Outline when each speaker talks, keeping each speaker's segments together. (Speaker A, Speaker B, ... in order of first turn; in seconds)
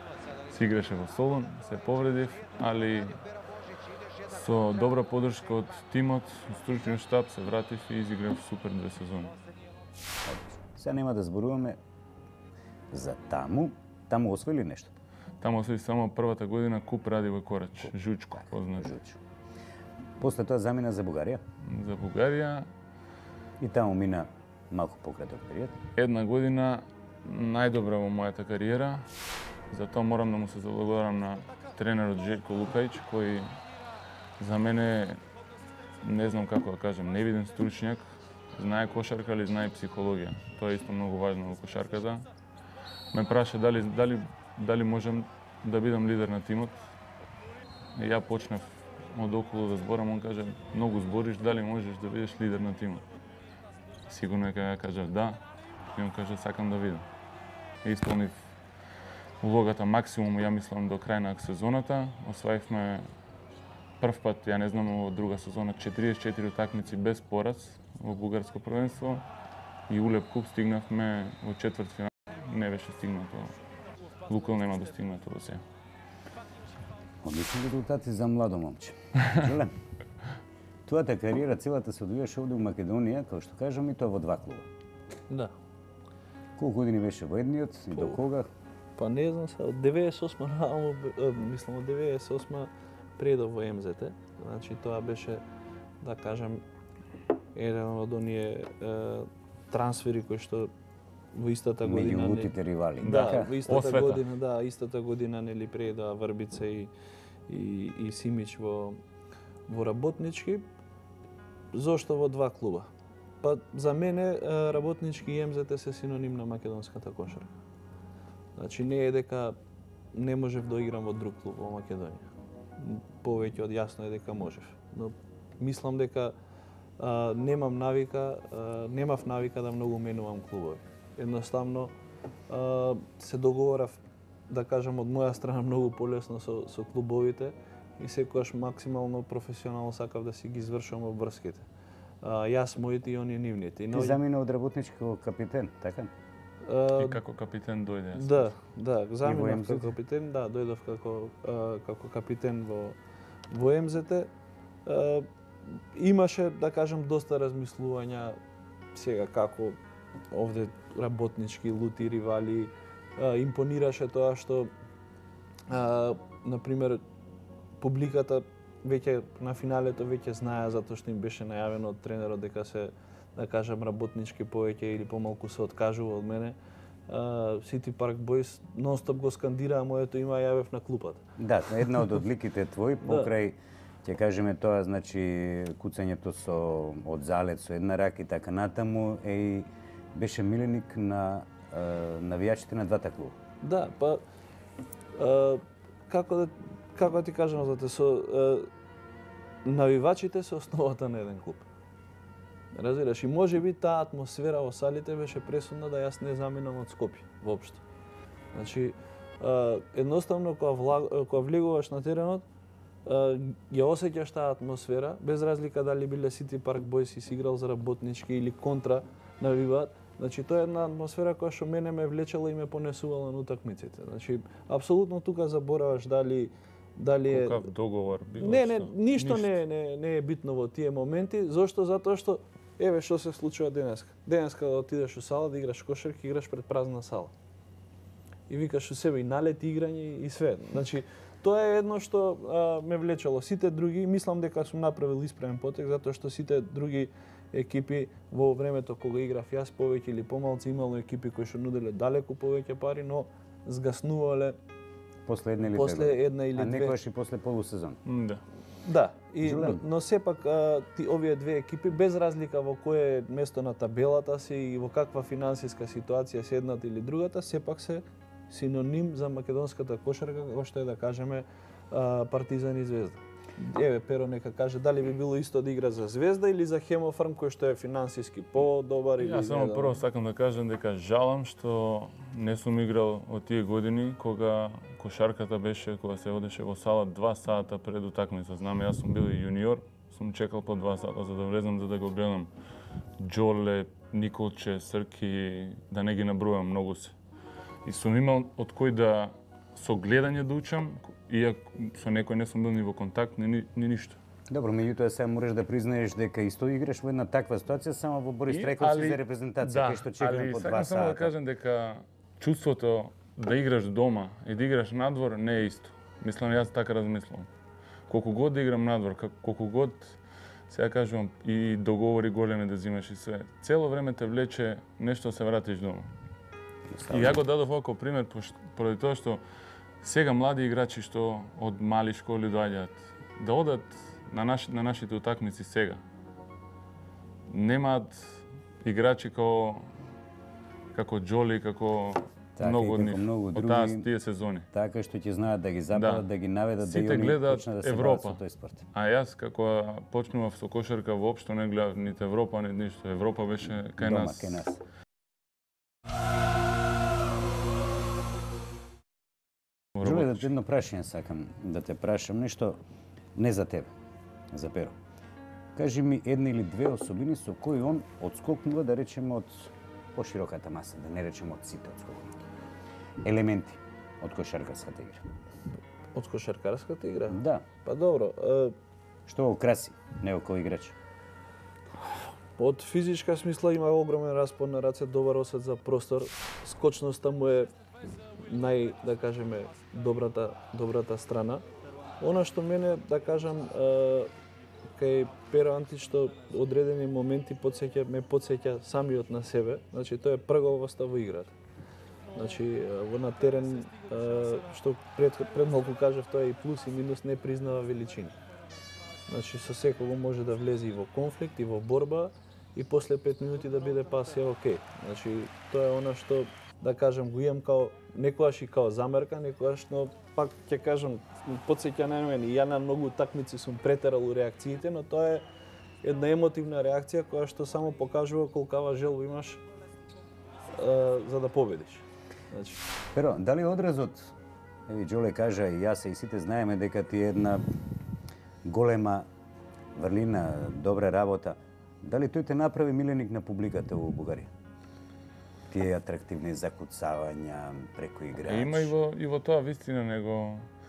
Speaker A: 0.5-3.3, 4.2-9.3, 15.4-18.9, 21.6-22.7, 25.9-29.1, 29.7-33.6, 34.4-35.2, 36.0-38.0, 38.5-42.2, 43.1-46.8, 47.9-53.0, 54.1-55.4, 55.9-57.0, 57.8-58.3, 59.4-63.1, 64.0-69.2, 69.9-73.5, 74.2-75.6, 103.0-104.2, 146.9-148.5, 227.3-229.6, 258.1-258.4, 279.2-292.5, 293.2-297.1, 297.8-304.2, 308.5-317.5, 318.1-320.2, 320.7-326.1, 327.1-329.4, 330.0-336.0, 337.5-339.9, 340.9-344.7, 345.9-346.2, 346.8-348.4, 348.9-354.6, 448.4-450.7
Speaker B: 10.2-11.8, 12.9-14.9, 17.8-19.2, 20.2-21.4, 23.6-25.8, 77.2-79.8, 80.8-84.7, 86.6-88.5, 101.8-103.5, 143.9-146.1, 149.2-149.9, 181.4-193.3, 255.2-258.0, 259.4-259.8, 304.5-311.3, 326.9-327.4, 342.6-344.1, 344.7-348.9, 354.0-354.8, 360.0-362.8, 363.3-363.9, 364.5-364.9, 365.8-372.4, 373.2-375.2, 377.3-377.6, 379.3-380.9, 433.1-434.3, 434.9-437.6, 438.6-439.3, 439.9-444.5, 445.7-448.9
Speaker C: 85.3-85.5, 89.0-95.4, 96.0-96.6, 97.5-100.7, 101.3-106.9, 107.5-109.0, 109.7-110.6, 111.7-112.9, 113.4-117.5, 118.5-119.5, 120.1-122.3, 122.8-126.3, 127.0-131.9, 132.5-141.7, 142.2-144.2, 146.6-147.2, 148.1-153.0, 153.5-154.3, 154.8-158.4, 158.9-159.8, 160.3-164.7, 165.7-167.0, 167.8-176.6, 177.1-181.2, 183.0-183.3, 193.6-194.2, 195.2-198.7, 199.6-201.7, 202.7-207.8, 208.5-212.4, 213.1-227.7, 228.4-237.3, 238.5-254.6, 255.7-257.0, 258.8-280.0, 376.1-378.7, 382.6-387.7, 388.4-391.6, 392.2-394.3, 394.9-401.5, 402.3-408.4, 409.3-425.4, 426.0-429.6, 430.7-432.8